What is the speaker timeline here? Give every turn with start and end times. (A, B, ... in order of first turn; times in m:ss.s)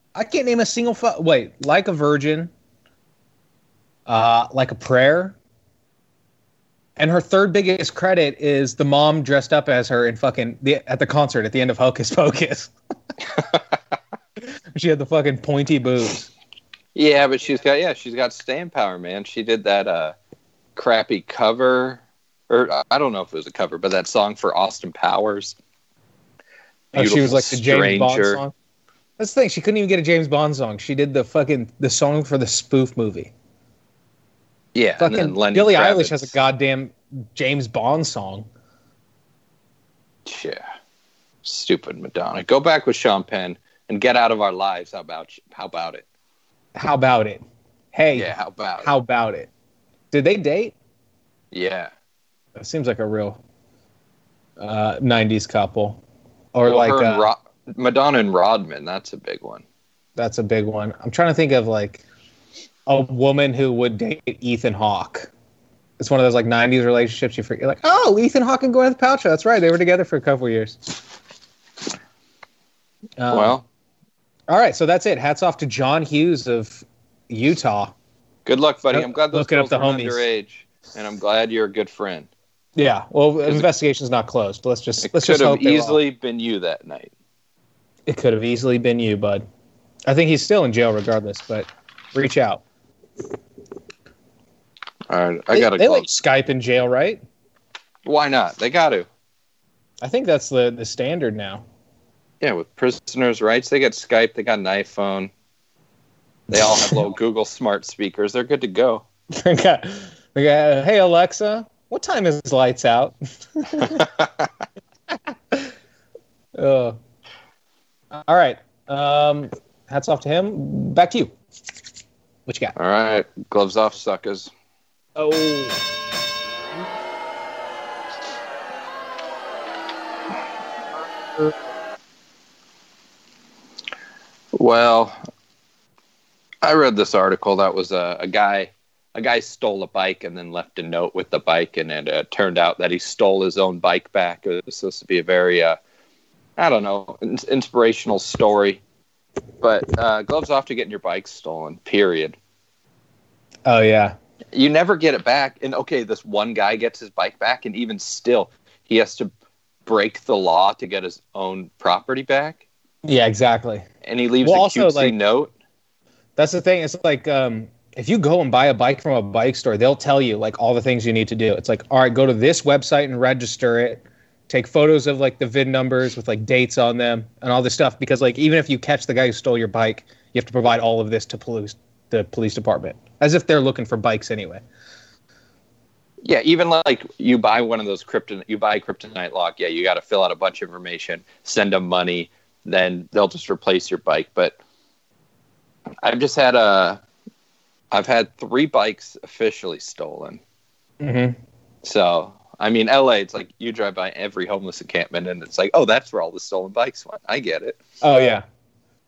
0:00.1-0:02.5 A
0:04.1-0:05.4 A
0:07.0-0:12.7 A
0:14.7-0:16.3 A
0:16.9-0:20.2 B
0:20.7-0:25.6 B
0:26.9-0:28.4 B
0:26.9-0:28.5 A
0:29.2-0:33.3 A
0:34.7-0:36.3 B
0:35.0-0:38.4 A
0:40.2-0:40.6 B
0:41.4-0:46.0 B
0:46.7-0:47.4 A
0:47.9-0:49.5 A
0:48.1-0:48.9 B
0:50.1-0:50.7 A
0:51.5-0:51.9 B
0:52.6-0:53.4 A
0:54.6-0:56.0 A
0:56.5-0:57.3 A
0:56.6-0:59.6 B
1:00.2-1:02.0 A
1:02.8-1:05.3 A
1:06.0-1:10.8 A
1:13.2-1:13.6 A
1:13.3-1:13.6 B
1:14.5-1:17.9 A
1:18.4-1:22.3 B
1:18.9-1:20.2 A
1:22.8-1:26.0 A
1:25.0-1:27.1 B
1:28.1-1:29.4 A
1:30.0-1:32.6 A
1:35.1-1:36.1 B
1:35.5-1:37.2 A
1:38.0-1:39.1 B
1:40.0-1:41.6 A
1:42.4-1:45.3 B
1:46.5-1:47.0 A
1:46.5-1:49.0 B
1:49.3-1:54.1 A
1:56.6-1:57.0 A
1:58.1-2:01.3 A
2:02.5-2:02.7 A
2:02.8-2:04.5 B
2:05.2-2:05.8 A
2:14.5-2:15.2 B
2:16.6-2:25.8 B
2:26.6-2:28.8 B
2:29.6-2:32.4 B
2:33.6-2:34.2 A
2:34.5-2:39.3 B
2:39.8-2:42.6 B
2:43.0-2:43.8 A
2:44.0-2:45.5 B
2:44.4-2:45.1 A
2:46.4-3:04.6 A
3:06.2-3:14.6 B
3:16.0-3:17.0 B
3:17.9-3:20.4 B
3:21.0-3:21.4 A
3:21.8-3:27.8 B
3:28.0-3:28.4 A